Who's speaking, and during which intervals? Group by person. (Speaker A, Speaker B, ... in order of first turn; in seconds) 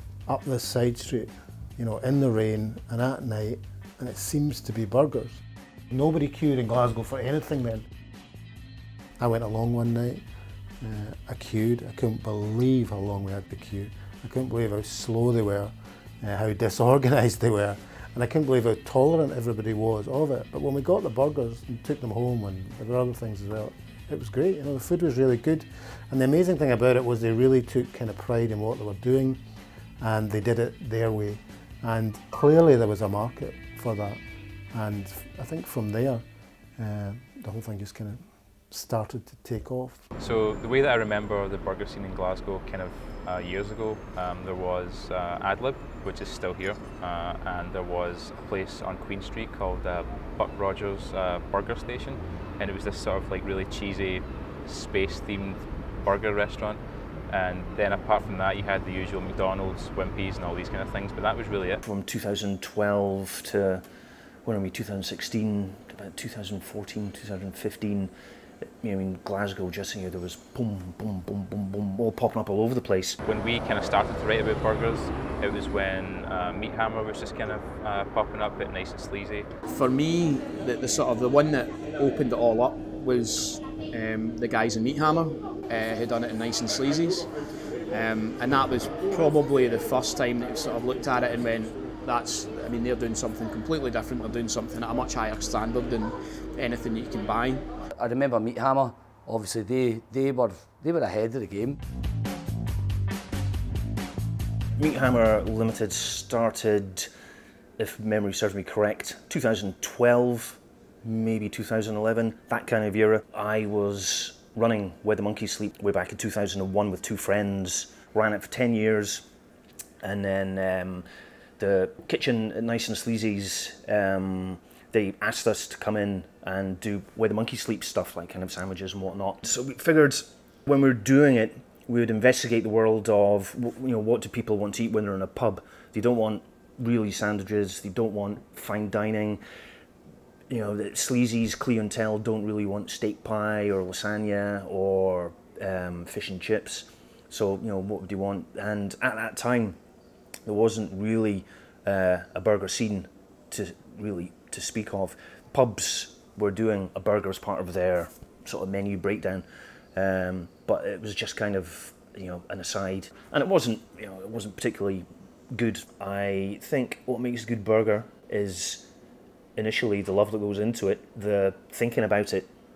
Speaker A: 0.2-7.8, 9.2-10.2, 10.8-29.4, 30.0-34.2, 34.7-36.2, 36.8-40.0
Speaker B: 40.2-61.8, 73.2-79.5
Speaker C: 61.8-63.9, 64.4-68.1, 68.8-73.2, 104.8-107.1, 107.8-119.2, 120.0-121.1, 121.6-139.4, 140.5-149.8, 150.4-168.9, 169.6-172.5
Speaker D: 79.7-87.3, 87.9-97.7
Speaker E: 98.0-101.8